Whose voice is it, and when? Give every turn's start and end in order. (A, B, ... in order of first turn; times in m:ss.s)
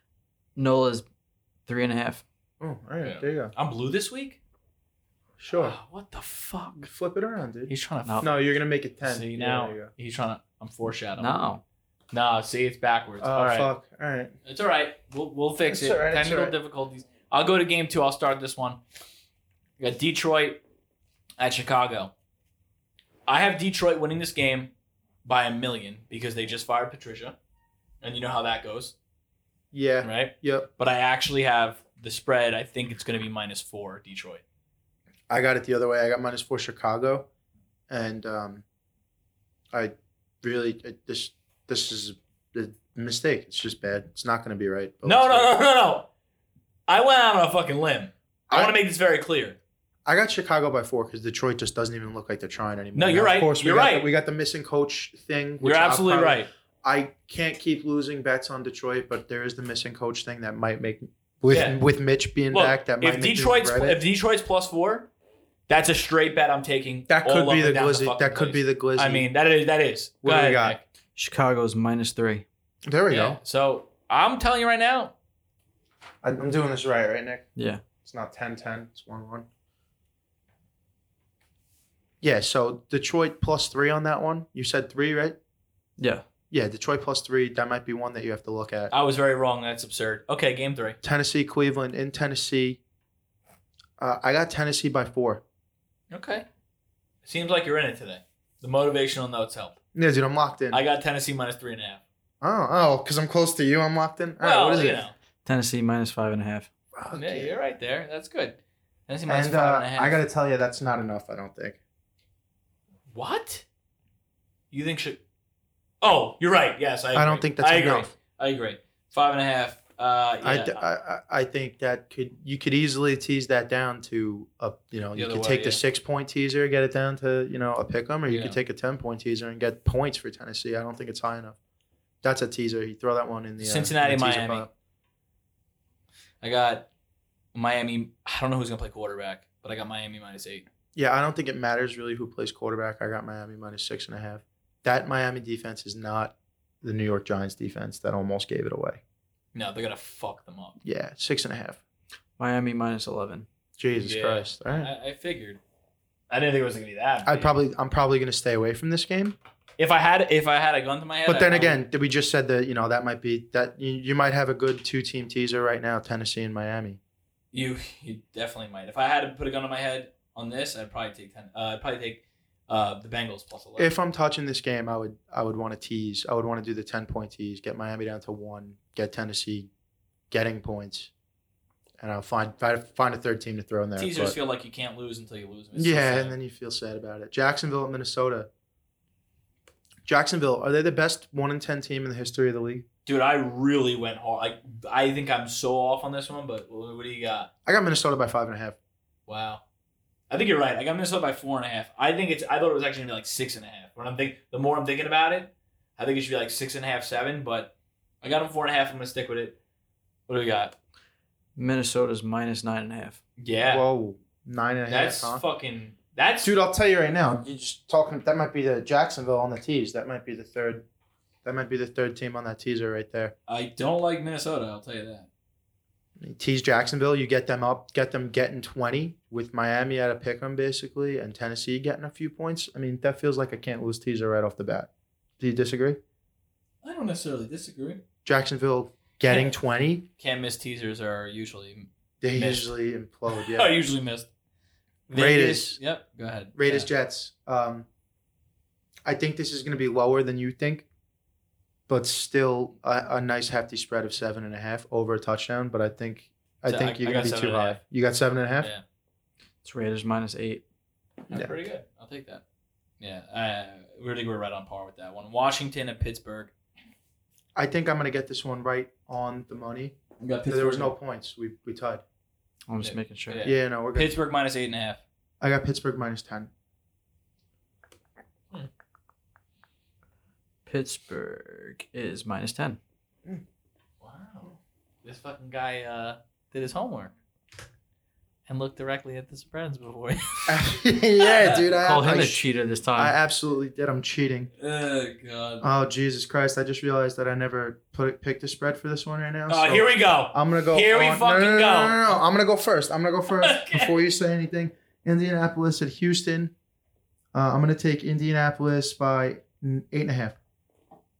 0:00.6-0:01.0 A
0:01.7-0:02.2 A
0:02.6-0:03.5 B
0:03.0-0:04.4 C
0:05.4-0:05.8 B
0:05.5-0:06.9 C
0:06.8-0:09.9 B
0:07.7-0:08.3 C
0:09.0-0:11.3 C
0:11.2-0:11.6 A
0:12.1-0:13.7 C
0:13.2-0:14.3 B
0:14.4-0:18.8 C
0:15.7-0:16.5 B
0:19.8-0:20.6 C
0:21.4-0:22.1 C
0:23.3-0:24.7 C
0:25.2-0:27.4 C
0:28.0-0:28.9 C
0:29.7-0:30.7 B
0:30.0-0:34.4 C
0:35.3-0:37.3 B
0:37.9-0:38.6 B
0:39.7-0:45.5 B
0:45.0-0:46.1 C
0:46.9-0:49.6 C
0:48.5-0:48.8 B
0:50.0-1:04.0 B
0:52.9-0:54.1 C
0:55.6-0:56.5 C
1:01.5-1:01.8 C
1:02.5-1:05.1 C
1:05.7-1:10.8 C
1:07.1-1:09.3 B
1:10.2-1:10.8 B
1:11.2-1:12.4 A
1:12.8-1:13.4 B
1:13.1-1:15.1 C
1:16.2-1:17.4 B
1:17.6-1:17.8 A
1:18.0-1:19.4 B
1:22.2-1:25.4 B
1:26.0-1:26.2 A
1:26.5-1:28.9 B
1:28.9-1:31.0 C
1:31.0-1:32.8 B
1:34.0-1:35.4 B
1:36.1-1:36.4 C
1:37.2-1:39.7 C
1:39.9-1:40.8 B
1:40.7-1:42.0 C
1:42.4-1:45.0 B
1:44.4-1:45.1 C
1:45.4-1:46.7 A
1:47.0-1:47.5 B
1:47.1-1:48.6 C
1:49.1-1:50.2 C
1:49.3-1:51.8 B
1:53.1-1:53.6 C
1:54.7-1:55.2 C
1:56.0-2:00.8 C
1:57.1-1:58.1 B
2:00.4-2:11.6 B
2:05.1-2:05.8 C
2:08.3-2:08.6 C
2:12.2-2:14.7 B
2:13.6-2:14.7 C
2:16.4-2:16.9 C
2:17.5-2:20.6 C
2:20.9-2:29.0 B
2:29.5-2:30.8 C
2:30.8-2:31.8 B
2:32.4-2:33.5 A
2:33.8-2:34.9 B
2:34.0-2:35.6 C
2:36.3-2:37.5 C
2:37.2-2:39.4 B
2:39.8-2:41.8 C
2:41.2-2:47.0 B
2:47.5-2:53.9 C
2:53.8-2:59.7 B
3:00.3-3:01.1 B
3:02.0-3:04.3 B
3:04.0-3:06.4 C
3:05.7-3:08.5 B
3:10.0-3:12.8 B
3:13.0-3:17.5 C
3:17.6-3:18.8 B
3:19.3-3:19.6 C
3:20.3-3:29.6 C
3:30.3-3:30.7 C
3:31.6-3:33.2 A
3:33.4-3:33.8 C
3:33.6-3:35.4 B
3:34.9-3:36.5 C
3:36.4-3:40.8 B
3:41.4-3:43.3 B
3:43.5-3:45.3 C
3:46.2-3:56.0 B
3:56.8-3:58.0 C
3:58.2-4:00.0 B
4:00.2-4:02.7 C
4:02.2-4:03.7 B
4:03.3-4:04.3 C
4:05.1-4:06.9 C
4:05.1-4:05.8 B
4:06.5-4:07.9 B
4:09.0-4:10.8 B
4:11.9-4:18.7 B
4:16.6-4:17.8 C
4:19.6-4:20.6 A
4:21.3-4:22.4 C
4:23.0-4:26.5 C
4:27.5-4:32.0 B
4:30.2-4:30.9 C
4:32.7-4:33.4 A
4:32.8-4:35.0 C
4:33.4-4:34.1 B
4:35.4-4:36.5 B
4:40.6-4:42.8 A
4:44.0-4:47.1 C
4:48.5-4:50.6 C
4:50.5-4:54.5 B
4:51.2-4:51.6 C
4:51.7-4:53.2 A
4:54.6-4:55.6 C
4:55.6-5:06.5 B
4:59.5-5:02.2 C
5:03.4-5:03.9 C
5:07.3-5:10.4 B